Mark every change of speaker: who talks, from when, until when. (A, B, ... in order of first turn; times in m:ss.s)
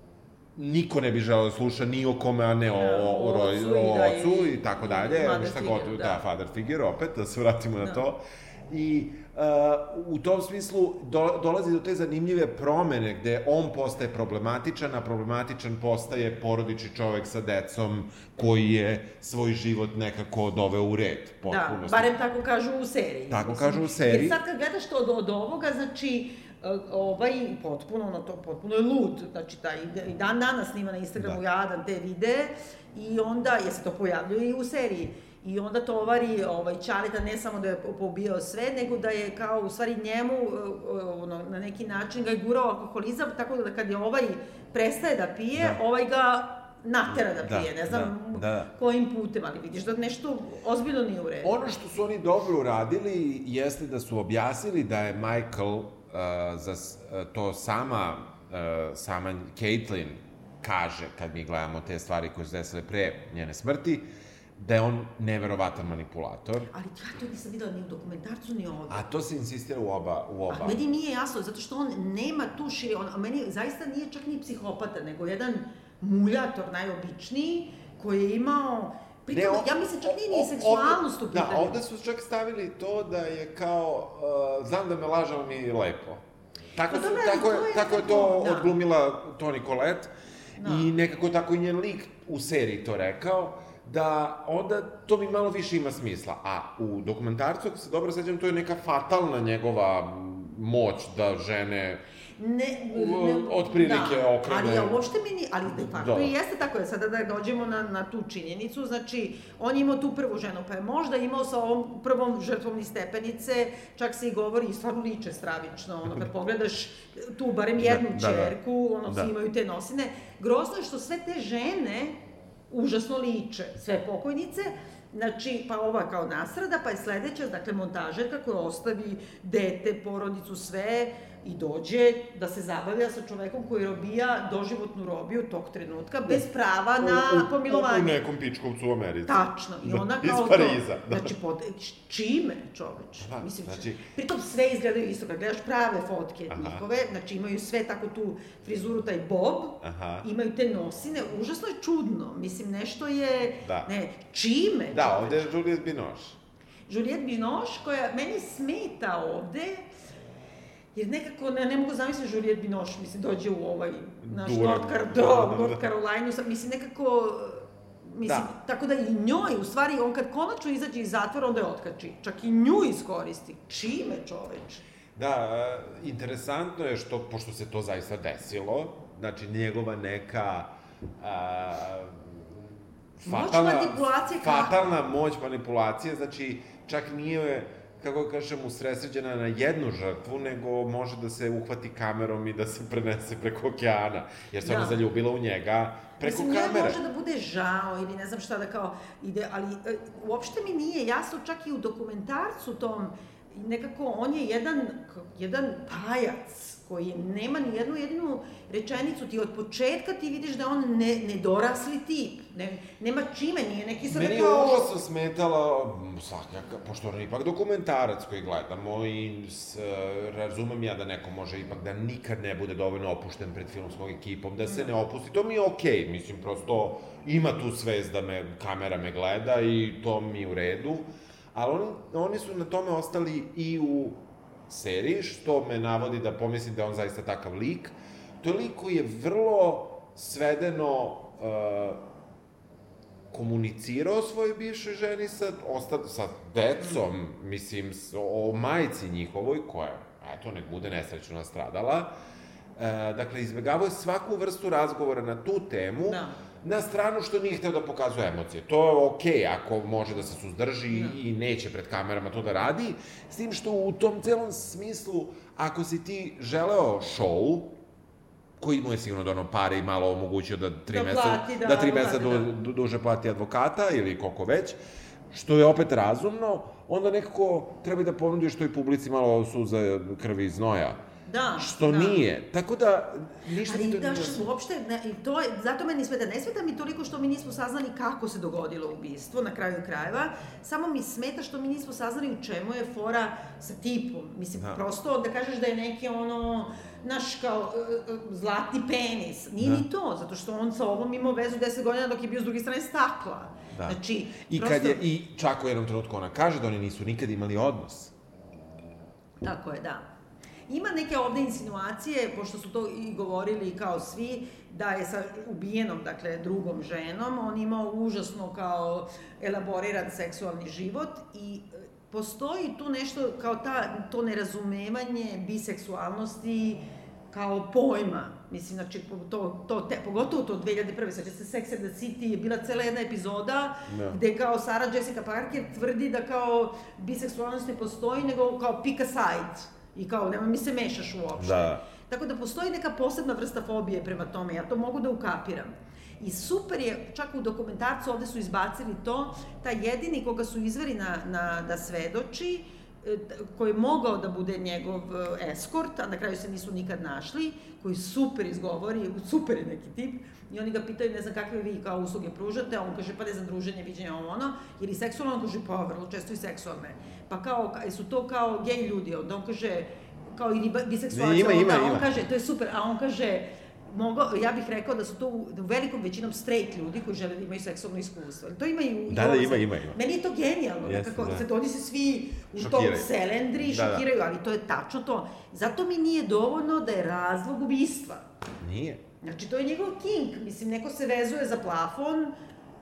0:00.6-0:22.1 A
0:02.7-0:06.2 B
0:07.8-0:08.0 B
0:21.5-0:51.5 B
0:23.3-0:24.4 A
0:45.6-0:45.8 A
0:47.1-0:48.7 A
0:51.4-1:04.0 A
1:04.6-1:06.7 A
1:06.7-1:09.0 B
1:08.9-1:10.8 A
1:10.5-1:21.8 B
1:19.3-1:26.2 A
1:26.8-1:30.1 A
1:26.9-1:28.8 B
1:30.6-1:30.9 B
1:30.6-1:42.0 A
1:42.4-2:02.2 B
1:42.9-1:45.0 A
1:45.8-1:46.3 A
1:57.8-1:58.6 A
2:02.7-2:18.2 B
2:17.0-2:21.3 A
2:19.3-2:35.6 B
2:23.2-2:24.0 A
2:26.5-2:26.8 A
2:29.8-2:30.3 A
2:33.6-2:33.9 A
2:34.9-2:36.4 A
2:36.9-2:39.9 B
2:41.0-2:54.8 B
2:44.2-2:45.8 A
2:48.2-2:48.5 A
2:55.2-3:02.7 A
3:03.2-3:17.0 A
3:03.3-3:04.8 B
3:14.6-3:15.0 B
3:16.2-3:35.0 B
3:34.1-4:02.0 A
3:44.6-3:44.9 B
4:03.3-4:12.1 A
4:12.8-4:27.7 A
4:16.1-4:16.4 B
4:20.9-4:21.2 B
4:28.6-4:34.8 A
4:30.9-4:32.5 B
4:35.3-4:41.0 A
4:41.3-4:42.2 B
4:41.6-4:44.5 A
4:43.6-5:05.0 B
4:59.6-4:59.8 A
5:03.7-5:08.1 A
5:09.4-5:10.0 B
5:10.7-6:28.3 B
5:33.9-5:34.2 A
5:41.4-5:41.8 A
6:11.1-6:12.2 A
6:19.1-6:20.0 A
6:20.8-6:21.5 A
6:22.6-6:24.0 A
6:28.6-6:29.0 A
6:29.2-6:32.3 B